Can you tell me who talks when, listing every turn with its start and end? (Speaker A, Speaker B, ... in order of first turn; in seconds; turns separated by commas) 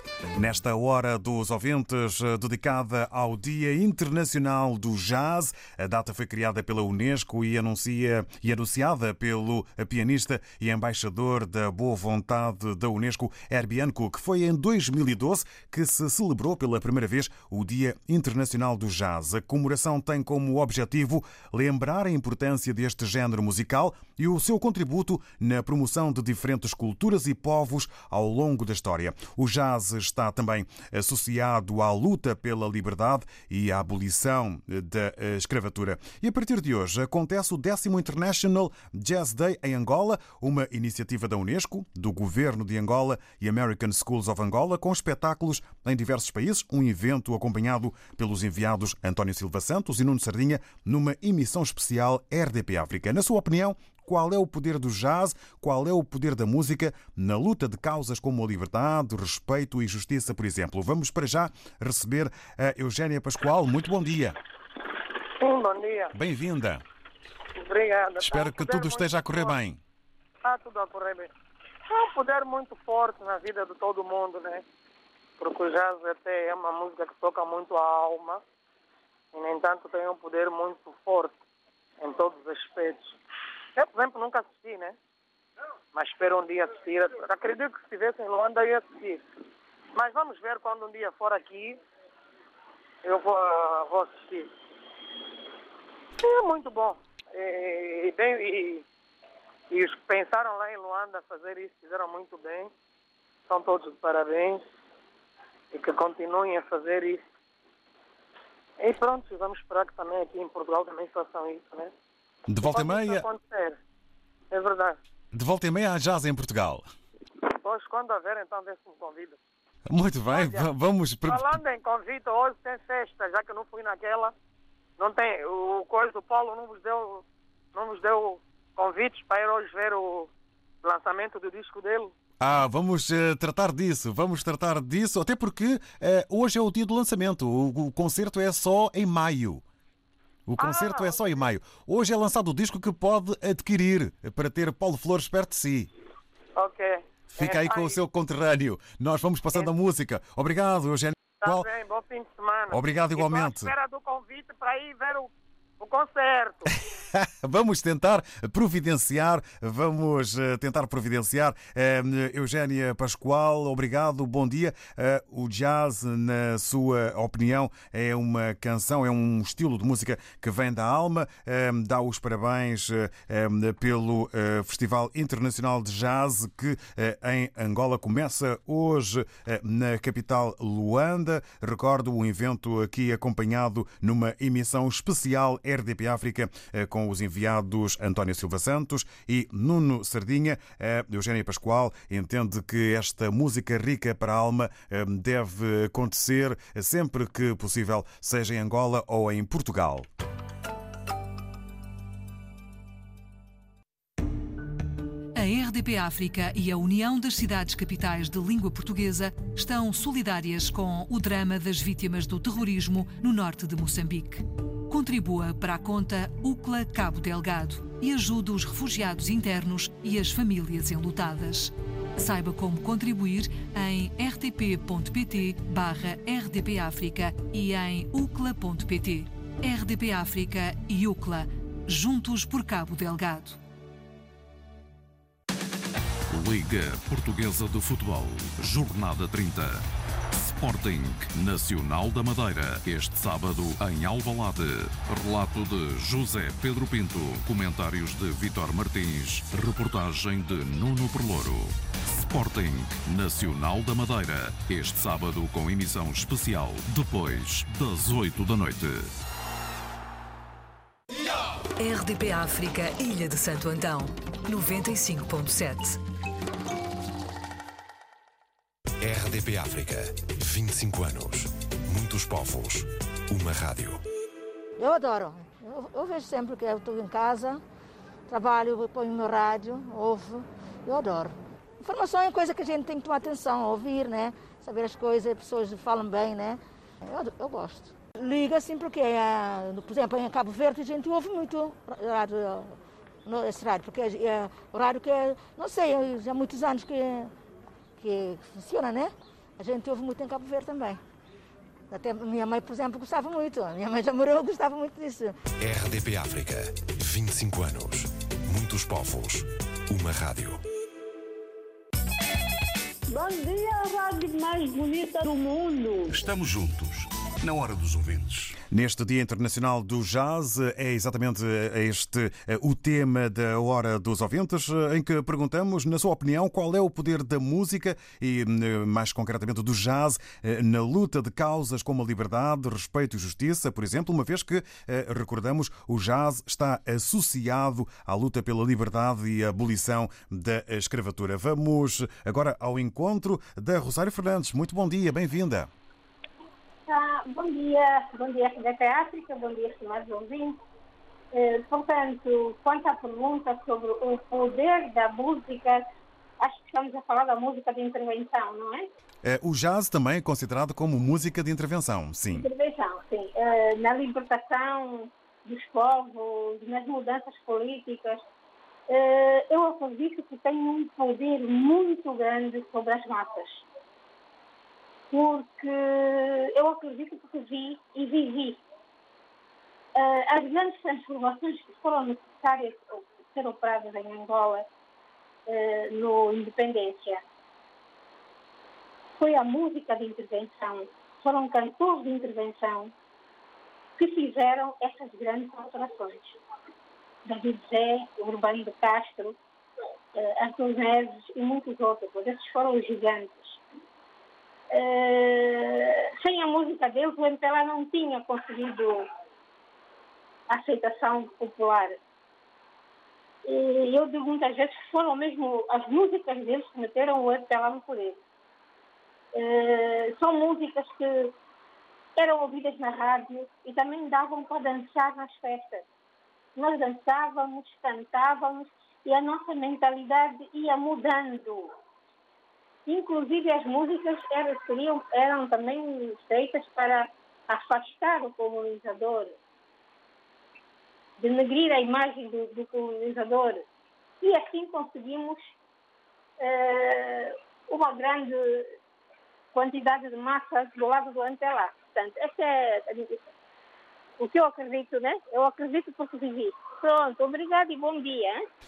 Speaker A: 0.3-64.4, Speaker B: 65.4-66.1, Speaker A: 66.1-66.8, Speaker B: 67.6-69.5, Speaker A: 68.2-69.8, Speaker B: 70.5-71.3, Speaker B: 71.9-74.6, Speaker B: 75.4-78.4, Speaker B: 79.3-81.4, Speaker B: 82.0-83.2, Speaker B: 83.8-85.0, Speaker B: 85.9-89.2, Speaker B: 90.0-91.8, Speaker B: 93.0-94.5, Speaker B: 96.2-98.8, Speaker B: 99.7-102.7, Speaker B: 103.5-104.6, Speaker B: 105.7-107.2, Speaker B: 108.8-111.9, Speaker A: 112.5-113.2, Speaker B: 112.6-113.8, Speaker B: 114.5-115.0, Speaker A: 115.3-116.9, Speaker B: 117.5-119.4, Speaker A: 119.9-121.6, Speaker B: 120.3-120.7, Speaker B: 121.2-124.3, Speaker B: 125.0-130.3, Speaker B: 130.8-132.1, Speaker A: 132.4-139.6, Speaker A: 140.5-145.9, Speaker B: 140.6-141.3, Speaker B: 146.6-148.0, Speaker A: 147.4-151.7, Speaker B: 151.4-156.7, Speaker A: 152.7-153.7, Speaker A: 157.1-200.1, Speaker C: 205.4-233.6, Speaker D: 236.3-239.8, Speaker D: 240.4-259.1, Speaker C: 261.8-266.0, Speaker E: 269.0-274.0, Speaker F: 274.8-277.6, Speaker F: 278.3-297.3, Speaker F: 298.0-301.0, Speaker F: 301.9-305.4, Speaker E: 305.6-310.6, Speaker G: 313.1-316.1, Speaker H: 316.1-318.6, Speaker A: 318.7-345.7, Speaker I: 346.9-350.6, Speaker I: 351.3-355.9, Speaker I: 356.4-358.9, Speaker A: 359.2-362.5, Speaker I: 362.3-368.2, Speaker I: 368.9-373.6, Speaker I: 375.1-378.6, Speaker I: 379.9-384.6, Speaker I: 385.5-387.2, Speaker I: 389.2-392.9, Speaker I: 394.0-396.4, Speaker I: 397.2-399.4, Speaker I: 400.1-403.6, Speaker I: 404.7-409.1, Speaker I: 410.5-412.0, Speaker I: 413.4-418.2, Speaker I: 419.3-421.3, Speaker I: 422.2-425.9, Speaker I: 426.6-431.7, Speaker I: 432.9-439.3, Speaker I: 441.2-443.6, Speaker I: 444.2-445.5, Speaker I: 446.4-448.7, Speaker I: 449.5-453.2, Speaker I: 454.2-458.4